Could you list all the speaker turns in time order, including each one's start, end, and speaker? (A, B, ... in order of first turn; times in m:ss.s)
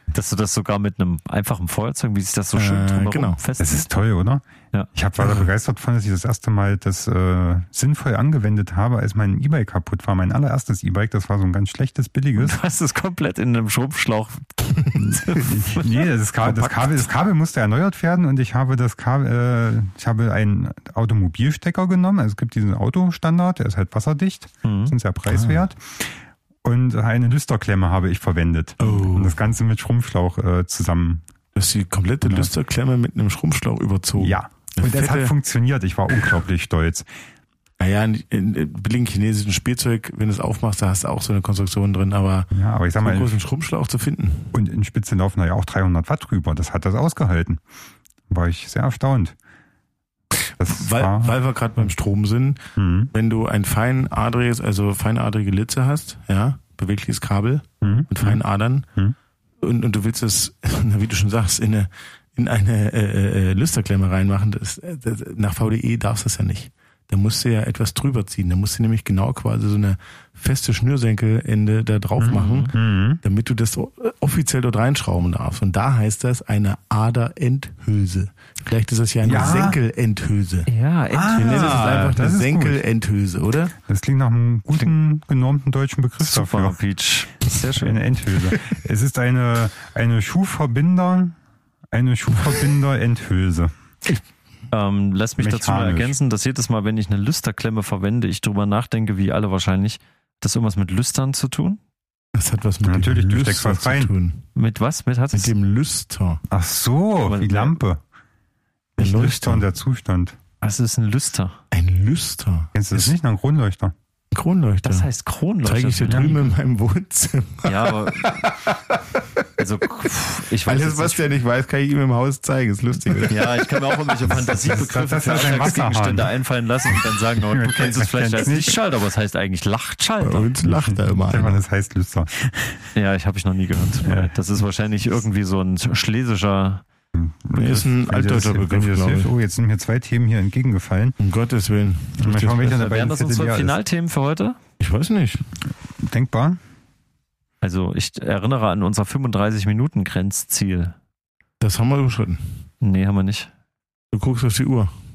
0:00.1-0:03.9 A
0:02.5-0:03.4 B
0:03.6-0:12.6 C
0:05.2-0:05.5 B
0:12.4-0:15.8 A
0:15.0-0:31.2 C
0:16.4-0:17.0 B
0:24.6-0:24.9 A
0:25.3-0:25.6 B
0:28.8-0:29.4 B
0:31.5-0:35.3 B
0:32.2-0:32.5 C
0:34.2-0:37.1 C
0:37.8-0:44.5 B
0:42.5-0:43.4 C
0:44.5-0:47.6 C
0:48.3-0:49.3 C
0:50.6-0:52.6 B
0:50.6-0:51.3 C
0:52.8-0:53.1 C
0:53.1-0:58.9 B
0:57.8-0:58.4 C
0:59.6-1:20.7 B
1:12.2-1:13.2 C
1:12.3-1:12.7 A
1:19.2-1:19.8 C
1:20.7-1:22.2 A
1:21.1-1:22.8 C
1:21.4-1:23.7 B
1:23.8-1:26.8 C
1:26.2-1:28.0 A
1:27.8-1:31.4 C
1:31.9-1:33.7 C
1:34.7-1:41.8 A
1:35.4-1:36.2 C
1:42.3-1:44.4 B
1:42.8-1:44.1 C
1:44.5-1:45.5 A
1:45.3-1:46.4 B
1:46.5-1:48.0 C
1:47.2-1:47.8 A
1:49.0-1:50.4 C
1:49.0-1:49.7 B
1:50.6-1:51.6 A
1:51.7-1:53.1 B
1:52.7-1:53.9 C
1:54.3-1:55.1 B
1:54.8-1:56.5 A
1:55.6-1:59.4 B
1:57.6-1:58.5 A
1:59.6-2:01.3 A
2:00.6-2:04.8 B
2:03.3-2:10.5 A
2:04.6-2:06.3 C
2:07.4-2:08.8 C
2:10.2-2:11.6 B
2:10.8-2:12.8 C
2:12.9-2:16.8 A
2:14.0-2:14.3 C
2:17.1-2:21.1 C
2:17.5-2:19.3 B
2:21.2-2:22.7 B
2:22.2-2:23.8 C
2:22.6-2:24.6 A
2:24.8-2:25.4 B
2:25.9-2:26.6 C
2:27.6-2:30.9 A
2:31.6-2:32.4 B
2:32.8-2:33.5 A
2:34.1-2:34.9 B